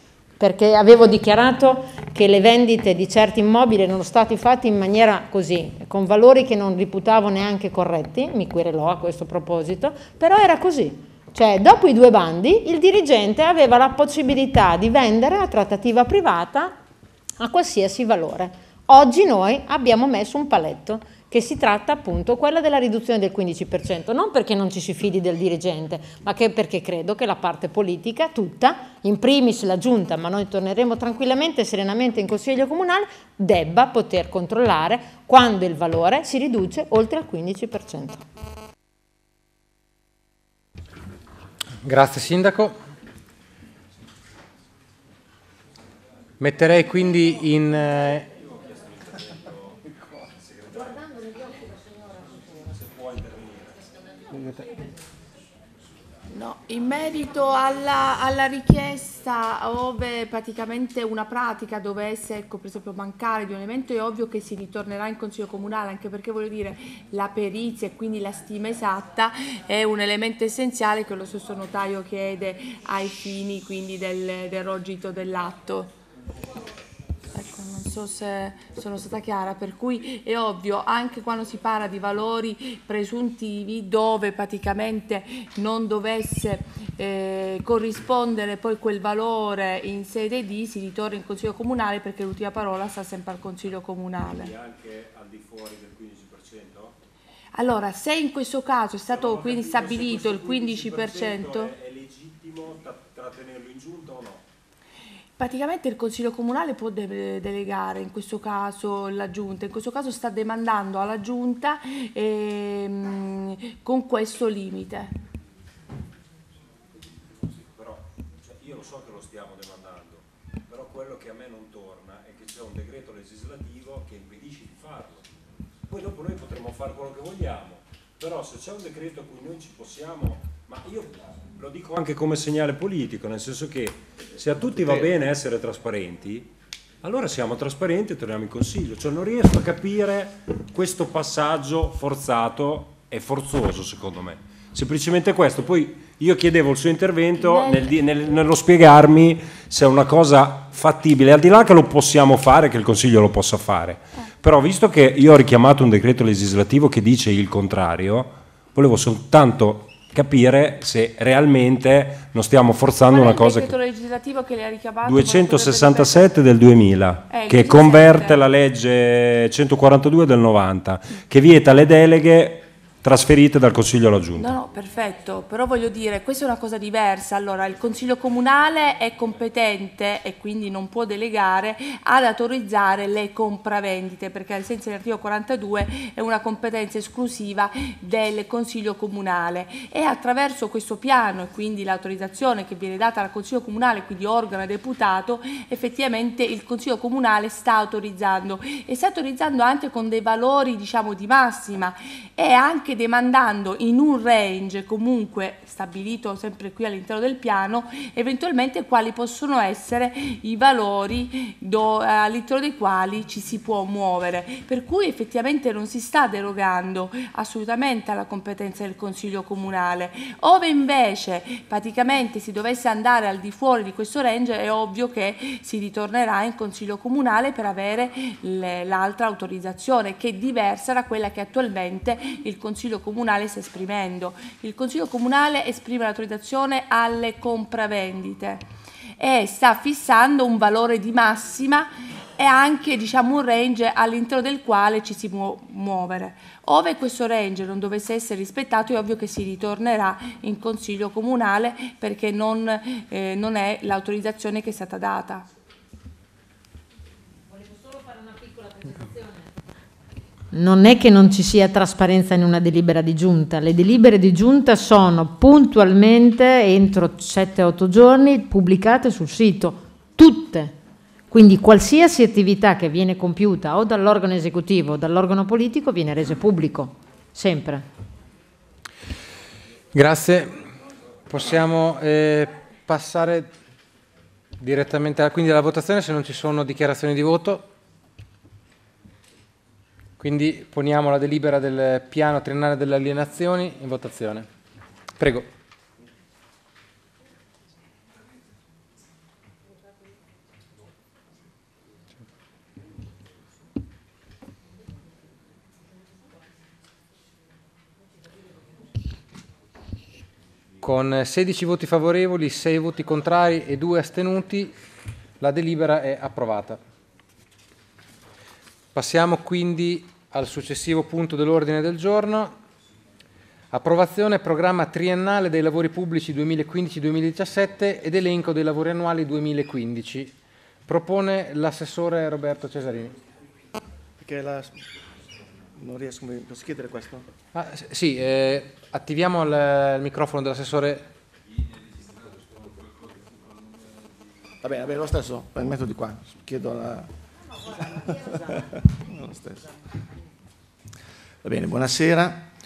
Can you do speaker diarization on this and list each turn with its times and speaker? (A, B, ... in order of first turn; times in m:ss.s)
0:00.4-0:16.7 A
0:17.4-0:38.2 A
0:41.8-0:42.8 B
0:46.4-0:48.3 B
0:49.5-0:53.8 C
0:54.3-0:54.7 B
0:56.3-1:15.9 D
1:17.3-1:34.5 D
1:34.2-1:36.9 C
1:37.5-1:41.7 D
1:39.1-1:44.4 C
1:45.4-1:55.1 D
1:57.6-2:05.4 C
2:05.9-2:16.5 C
2:17.0-2:43.8 C
2:27.4-2:27.9 D
2:43.1-2:46.4 D
2:45.0-2:54.5 C
2:47.3-2:48.4 D
2:54.4-3:58.7 D
3:59.2-4:15.5 D
4:17.9-4:19.3 A
4:20.5-4:30.7 A
4:31.3-4:37.8 A
4:39.9-4:40.5 B
4:41.3-4:43.5 B
4:44.6-4:47.7 B
4:50.2-4:54.5 B
4:55.2-4:55.5 B
5:10.8-5:14.7 B
5:15.4-5:16.8 B
5:18.9-5:22.6 B
5:23.7-5:30.3 B
5:30.9-5:33.1 B
5:34.2-5:34.8 E
5:35.8-5:37.2 E
5:37.5-5:41.1 B
5:44.6-5:47.1 E
5:47.8-5:49.7 E
5:51.4-5:52.5 E